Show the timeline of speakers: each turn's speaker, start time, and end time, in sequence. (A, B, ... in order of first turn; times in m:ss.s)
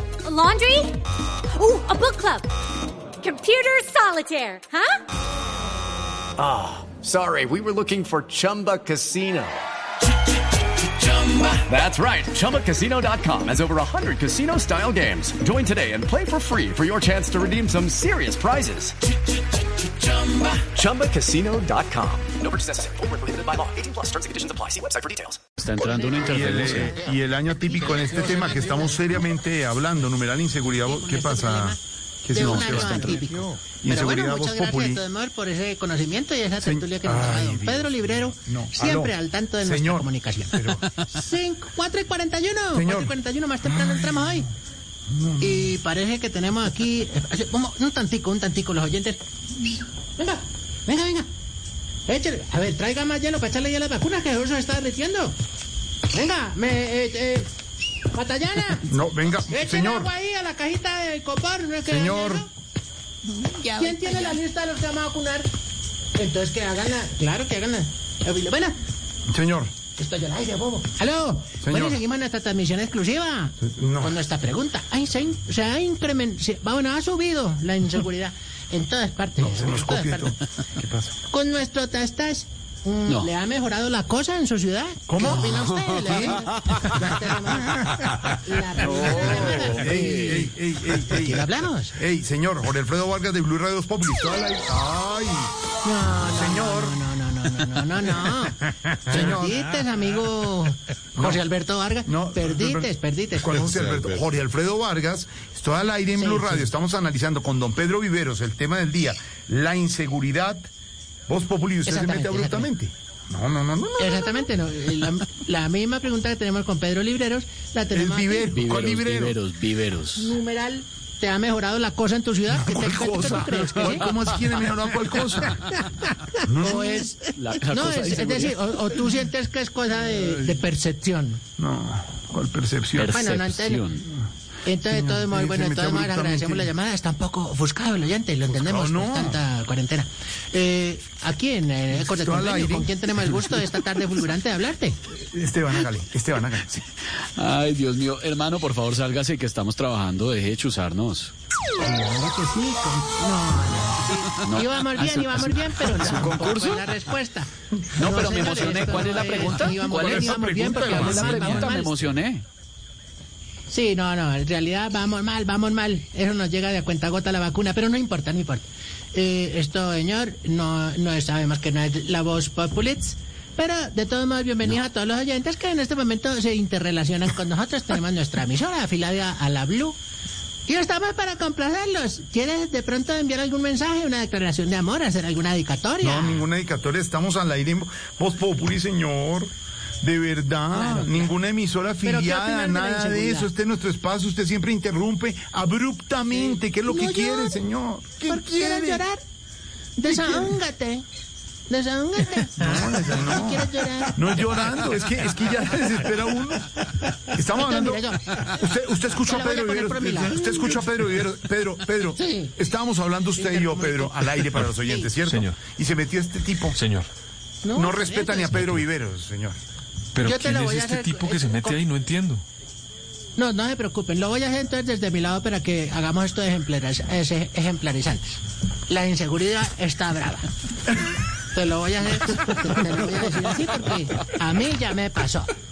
0:00.2-0:01.0 A
0:01.5-0:02.5 A
0:03.2-0:05.0 A
0:06.4-0:09.6 B
0:11.5-0:19.0 B
0:20.6-0:22.9 B
0:23.6-0:25.4 B
0:25.5-0:26.9 C
0:25.8-0:29.0 D
0:26.1-0:35.0 E
0:30.8-0:31.8 D
0:32.3-0:44.5 D
0:36.6-0:40.8 E
0:42.7-0:43.1 E
0:45.1-0:45.6 E
0:45.4-0:49.2 D
0:50.2-0:51.3 D
0:52.1-0:55.4 D
0:56.1-0:57.5 D
0:58.1-0:58.9 D
0:58.9-1:00.1 E
0:59.5-1:02.5 D
1:01.9-1:02.4 E
1:03.8-1:05.5 D
1:06.2-1:08.8 D
1:09.3-1:09.7 E
1:10.0-1:20.3 D
1:11.6-1:12.0 E
1:13.6-1:14.2 E
1:19.4-1:21.1 E
1:21.3-1:30.5 D
1:25.1-1:26.4 E
1:28.9-1:30.4 C
1:29.1-1:35.5 E
1:31.1-1:32.0 D
1:35.8-1:43.5 D
1:36.3-1:37.0 E
1:39.0-1:39.6 E
1:41.2-1:41.4 E
1:42.1-1:50.7 E
1:46.2-1:46.7 D
1:51.3-1:54.4 E
1:51.9-1:52.7 D
1:54.0-1:58.6 D
1:57.9-1:59.4 E
1:58.6-2:00.3 C
2:00.2-2:04.1 D
2:02.5-2:05.8 E
2:06.5-2:07.1 E
2:06.6-2:11.4 D
2:07.3-2:08.5 C
2:11.6-2:13.2 E
2:13.0-2:14.0 C
2:13.1-2:13.8 D
2:14.6-2:25.0 D
2:14.9-2:16.7 E
2:18.5-2:19.4 E
2:22.0-2:22.9 E
2:25.1-2:26.8 E
2:27.4-2:31.3 C
2:31.8-2:42.1 D
2:34.5-2:35.4 C
2:36.0-2:36.9 C
2:38.0-2:42.4 C
2:39.8-2:41.7 E
2:43.7-3:00.0 D
3:00.7-3:06.4 D
3:06.0-3:09.5 E
3:10.0-3:19.0 E
3:10.7-3:11.3 D
3:12.0-3:13.5 D
3:16.3-3:17.6 D
3:18.3-3:19.2 D
3:20.0-3:21.0 D
3:20.1-3:20.5 E
3:21.7-3:24.2 D
3:22.6-3:26.7 E
3:27.3-3:36.8 E
3:27.6-3:28.5 D
3:29.2-3:30.4 D
3:32.2-3:32.6 D
3:33.4-3:34.2 D
3:34.8-3:35.1 D
3:35.3-3:35.6 F
3:36.8-3:37.1 F
3:37.6-3:38.8 D
3:37.8-3:39.6 E
3:40.1-3:42.4 F
3:40.2-3:41.8 D
3:43.4-3:48.2 D
3:48.9-3:50.5 D
3:51.5-3:55.5 D